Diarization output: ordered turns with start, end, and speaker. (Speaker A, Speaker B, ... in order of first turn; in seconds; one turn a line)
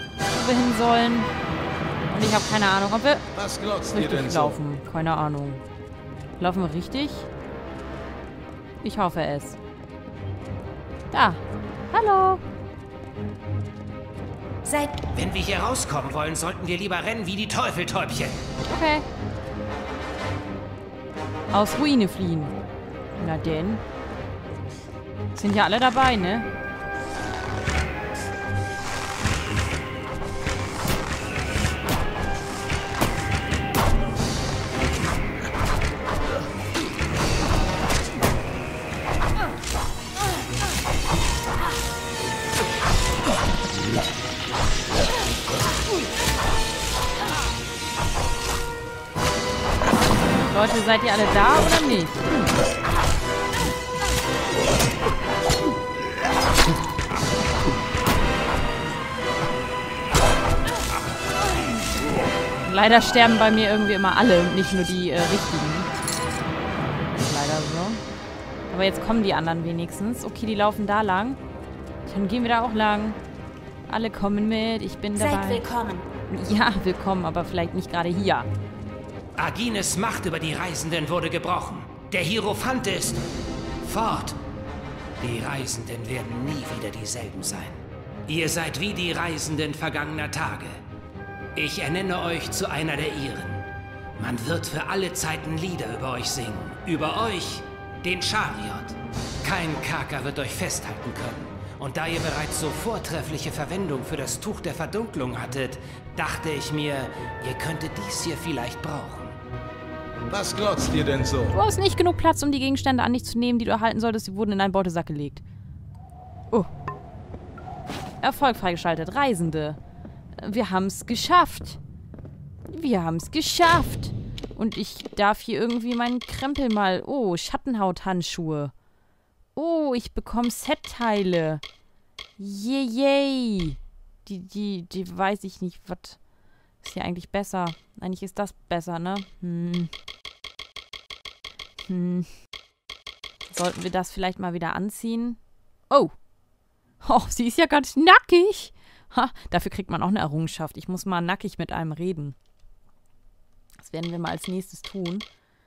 Speaker A: 0.3-1.3
Speaker A: 2.1-3.2
Speaker B: 3.3-4.6
Speaker A: 3.9-5.6
Speaker A: 6.4-7.3
Speaker A: 8.8-9.6
Speaker A: 11.1-12.4
Speaker C: 14.7-18.4
Speaker A: 18.7-19.0
Speaker A: 21.5-22.5
Speaker A: 23.2-23.8
Speaker A: 25.3-26.5
Speaker A: 50.5-52.3
Speaker A: 62.6-65.9
Speaker A: 67.1-68.0
Speaker A: 68.7-71.4
Speaker A: 72.0-73.2
Speaker A: 73.9-75.7
Speaker A: 76.3-78.5
Speaker C: 79.3-83.2
Speaker C: 83.8-84.4
Speaker C: 85.2-90.8
Speaker C: 91.5-109.3
Speaker B: 110.3-111.6
Speaker A: 111.5-115.4
Speaker A: 118.2-119.8
Speaker A: 120.4-121.8
Speaker A: 122.7-128.7
Speaker A: 129.6-131.6
Speaker A: 132.4-136.2
Speaker A: 136.8-139.9
Speaker A: 141.9-142.3
Speaker A: 143.5-145.4
Speaker A: 147.0-152.3
Speaker A: 153.8-155.2